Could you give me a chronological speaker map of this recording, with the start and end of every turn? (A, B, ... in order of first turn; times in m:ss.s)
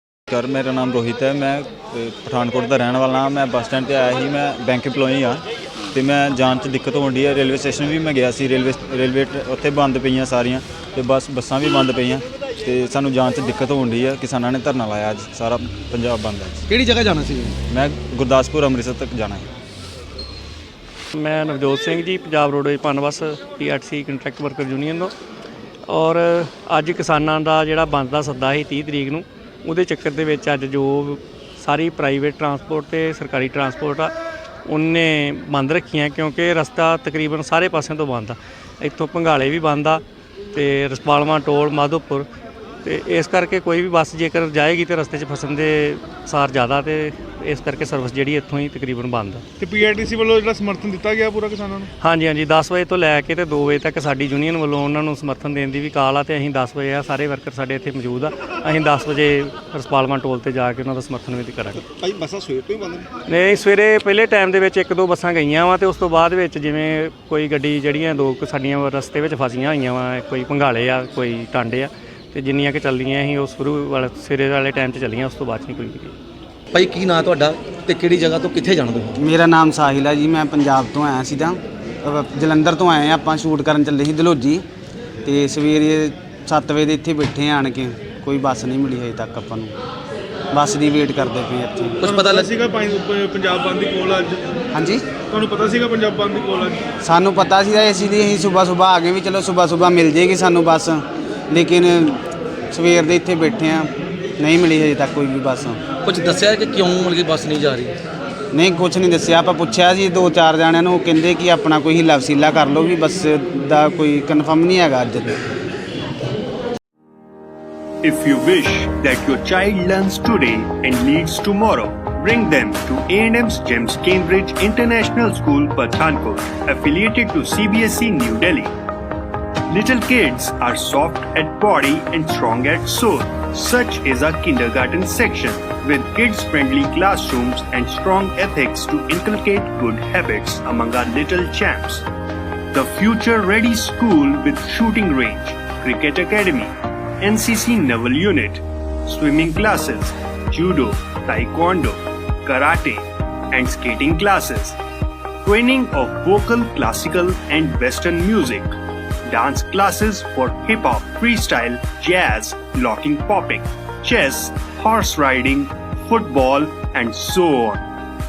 0:00.3-0:16.6 A
0:16.7-0:17.6 B
0:17.7-0:19.5 A
0:21.1-0:25.1 C
0:25.9-0:34.1 C
0:34.6-0:40.0 C
0:40.5-0:42.3 C
0:42.8-0:49.4 C
0:49.6-0:51.9 D
0:52.0-1:01.9 C
1:01.9-1:03.1 B
1:03.3-1:16.1 C
1:16.7-1:19.2 B
1:19.2-1:24.6 E
1:25.2-1:29.7 E
1:30.5-1:32.0 E
1:32.0-1:32.5 B
1:32.2-1:34.4 D
1:34.7-1:35.0 E
1:35.3-1:36.8 D
1:37.0-1:42.2 E
1:42.7-1:45.8 E
1:46.0-1:48.0 B
1:48.5-1:55.4 E
1:58.0-2:08.7 F
2:09.7-2:22.0 F
2:22.7-2:34.8 F
2:35.4-2:38.8 F
2:39.3-2:47.9 F